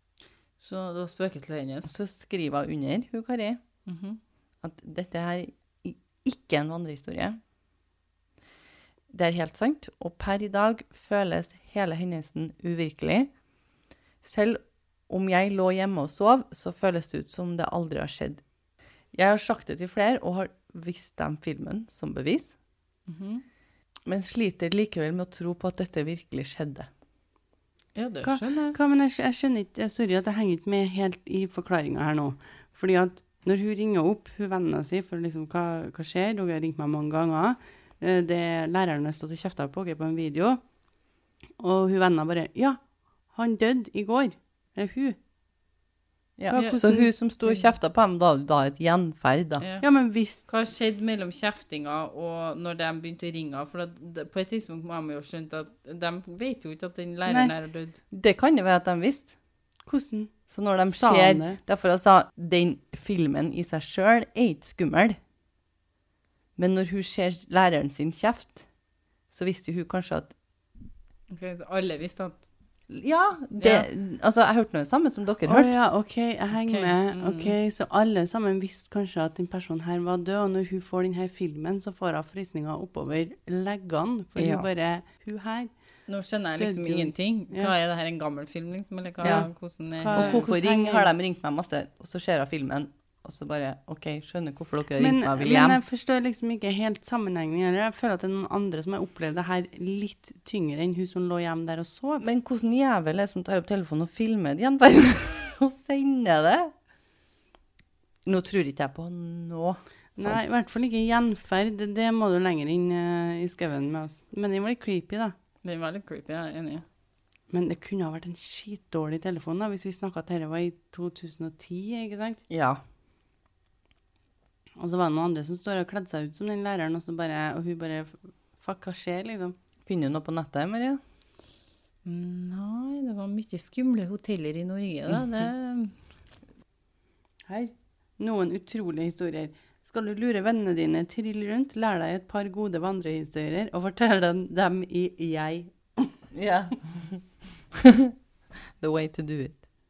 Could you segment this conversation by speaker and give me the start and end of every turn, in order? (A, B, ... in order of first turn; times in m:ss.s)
0:00.6-0:02.0 A
0:01.8-0:03.6 B
0:03.9-0:04.2 A
0:04.6-0:07.4 B
0:09.1-0:13.3 B
0:14.2-0:18.4 B
0:19.1-0:22.6 B
0:23.1-0:23.4 A
0:24.1-0:26.9 B
0:28.0-0:28.8 A
0:28.2-0:40.6 C
0:41.6-0:42.8 C
0:43.3-0:45.2 C
0:46.4-0:49.6 B
0:46.5-0:47.1 C
0:46.5-0:46.8 A
0:49.8-0:50.4 C
0:50.5-0:58.0 A
0:57.3-0:57.6 B
0:58.1-0:59.3 B
0:59.9-1:00.3 C
1:00.5-1:05.2 B
1:00.9-1:01.6 C
1:06.6-1:08.6 B
1:09.3-1:10.3 B
1:11.3-1:12.5 A
1:12.9-1:15.7 B
1:13.6-1:13.9 A
1:15.5-1:25.7 C
1:16.6-1:17.6 A
1:24.4-1:24.7 B
1:26.1-1:30.5 A
1:26.6-1:27.7 C
1:29.2-1:31.1 C
1:29.2-1:29.5 B
1:30.1-1:35.8 B
1:35.0-1:42.2 C
1:42.2-1:46.7 B
1:48.3-1:50.5 B
1:50.2-1:55.3 C
1:55.6-1:56.8 A
1:57.5-2:02.4 C
2:02.5-2:02.8 B
2:04.8-2:09.6 C
2:09.9-2:11.0 B
2:12.0-2:15.9 A
2:17.5-2:26.2 C
2:26.3-2:28.2 B
2:28.8-2:29.6 B